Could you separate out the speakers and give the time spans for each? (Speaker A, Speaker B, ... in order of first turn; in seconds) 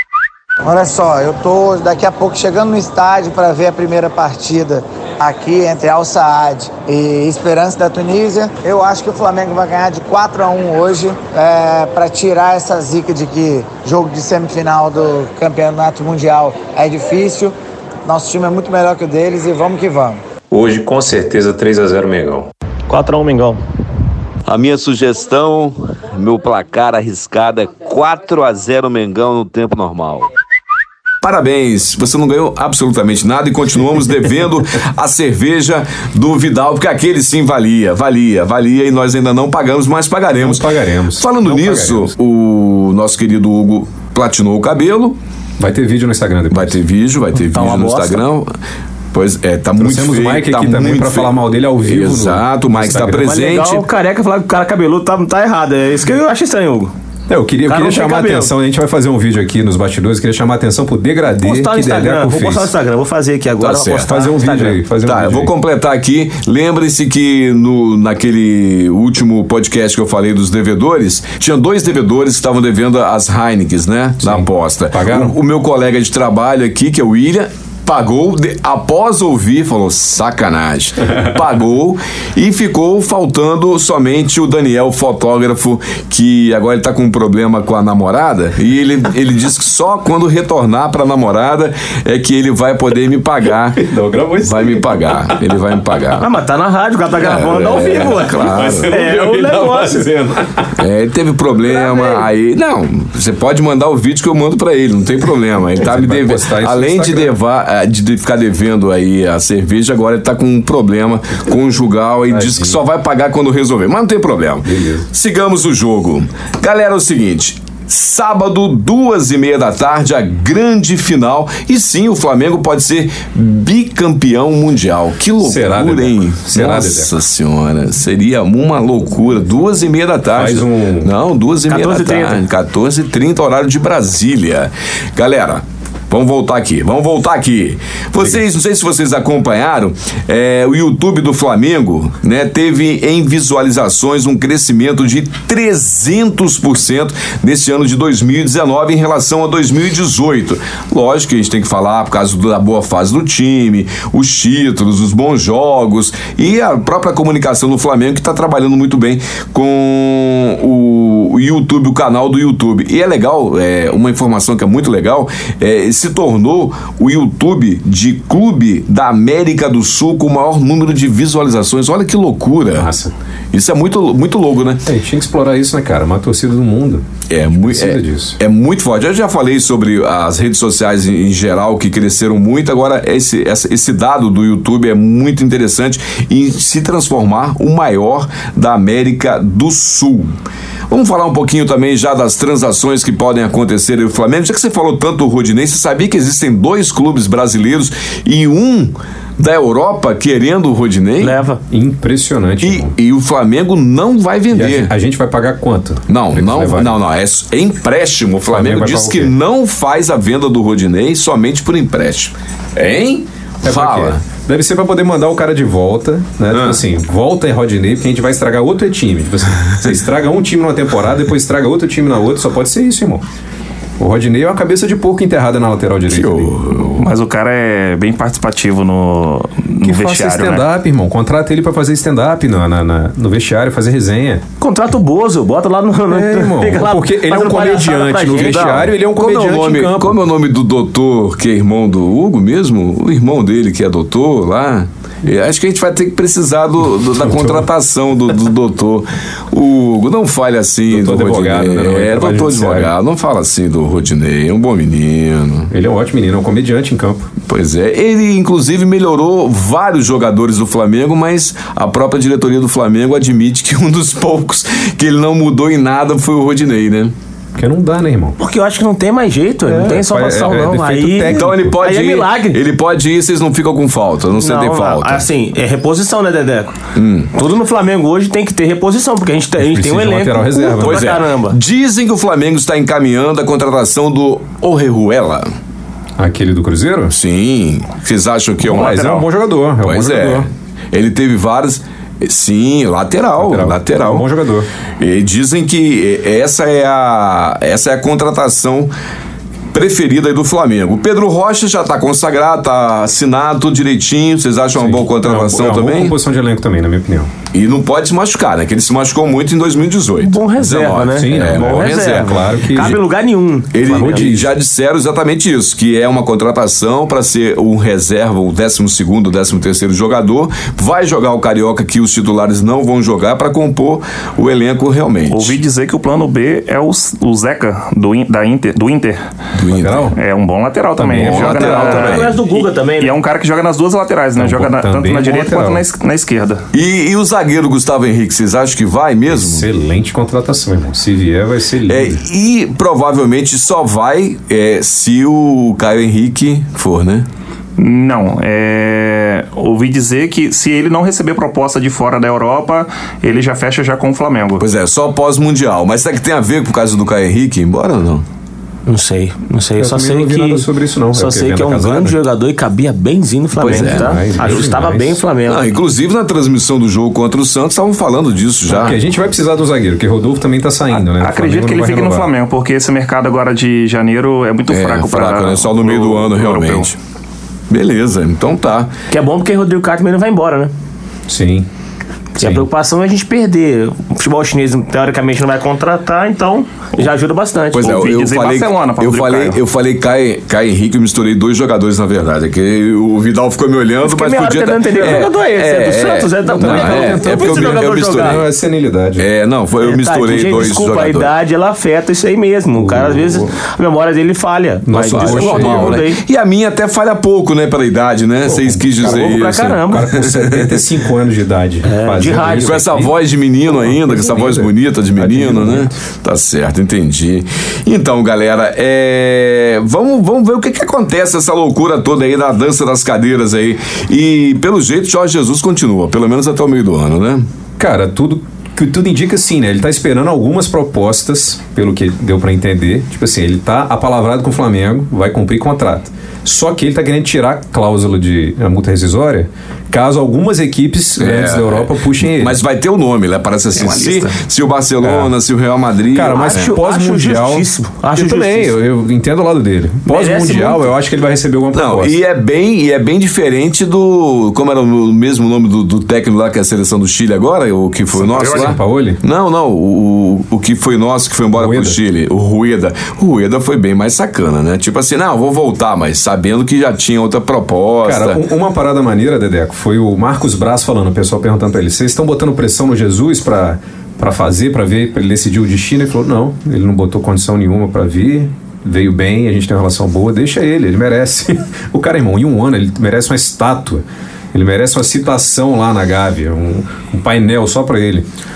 Speaker A: 0.6-17.5, 18.1-20.2
Speaker B: 20.5-22.5
Speaker C: 22.9-23.6, 47.3-48.2, 53.1-56.9, 57.6-58.5, 61.4-64.8, 96.2-100.1, 101.7-102.3, 131.7-132.4, 201.2-201.6, 234.6-238.9, 268.4-272.6, 274.4-276.7, 277.3-281.6, 310.2-314.3, 331.7-333.1, 358.9-365.7, 379.1-380.7, 382.4-388.0, 394.0-398.4, 399.8-406.2, 409.0-410.2, 411.8-412.9, 446.3-448.7, 450.1-450.9
Speaker D: 24.6-25.3, 26.4-30.1
Speaker E: 31.2-45.2, 46.5-48.5, 49.1-53.9, 63.6-64.1, 65.0-93.8, 94.4-96.3, 97.2-98.9, 100.8-172.9, 173.5-174.8, 177.3-190.3, 190.9-201.4, 202.6-204.9, 206.1-214.2, 216.5-216.8, 226.1-227.1, 238.3-255.7, 257.5-267.1, 271.3-275.2, 276.9-277.3, 280.8-285.5, 287.1-289.0, 289.8-294.2, 295.0-298.9, 299.7-306.2, 307.5-313.0, 313.7-325.6, 329.5-330.1, 331.1-332.4, 336.7-339.7, 341.9-347.3, 354.6-358.2, 363.6-364.6, 365.4-369.0, 374.7-377.0, 377.7-378.9, 387.7-398.5, 399.2-401.3, 405.0-410.8, 412.5-427.4, 441.2-446.7, 451.7-468.4
Speaker F: 40.4-42.1, 45.6-46.8, 49.8-53.4, 57.3-62.7, 63.9-65.5, 74.2-75.4, 93.7-95.7, 97.8-100.8, 105.8-107.3, 112.3-112.8, 114.6-115.1, 125.4-127.1, 130.3-131.1, 172.7-173.1, 174.8-177.0, 177.6-178.4, 201.7-202.9, 204.5-207.0, 208.5-209.3, 213.6-223.2, 224.0-226.5, 229.8-234.4, 236.1-240.2, 247.0-247.7, 250.9-252.9, 255.7-257.3, 267.6-268.4, 269.6-271.8, 279.6-281.1, 286.2-287.1, 288.6-290.5, 293.4-294.7, 304.7-307.3, 311.1-313.0, 313.8-314.5, 329.8-330.2, 331.0-332.1, 334.4-335.8, 339.3-342.2, 359.8-362.2, 363.6-365.2, 368.7-372.3, 381.3-381.7, 382.4-382.7, 395.0-395.3, 396.5-399.3, 402.7-403.6, 404.9-406.0, 408.4-413.1, 413.7-416.0, 427.8-442.6, 445.0-445.3, 446.1-452.2, 458.4-459.2, 461.5-462.0, 468.0-488.3
Speaker G: 227.0-230.6, 288.7-289.2, 325.2-329.2, 330.1-336.6, 347.8-354.6, 370.9-376.9, 387.8-389.6, 443.9-444.2, 458.1-458.8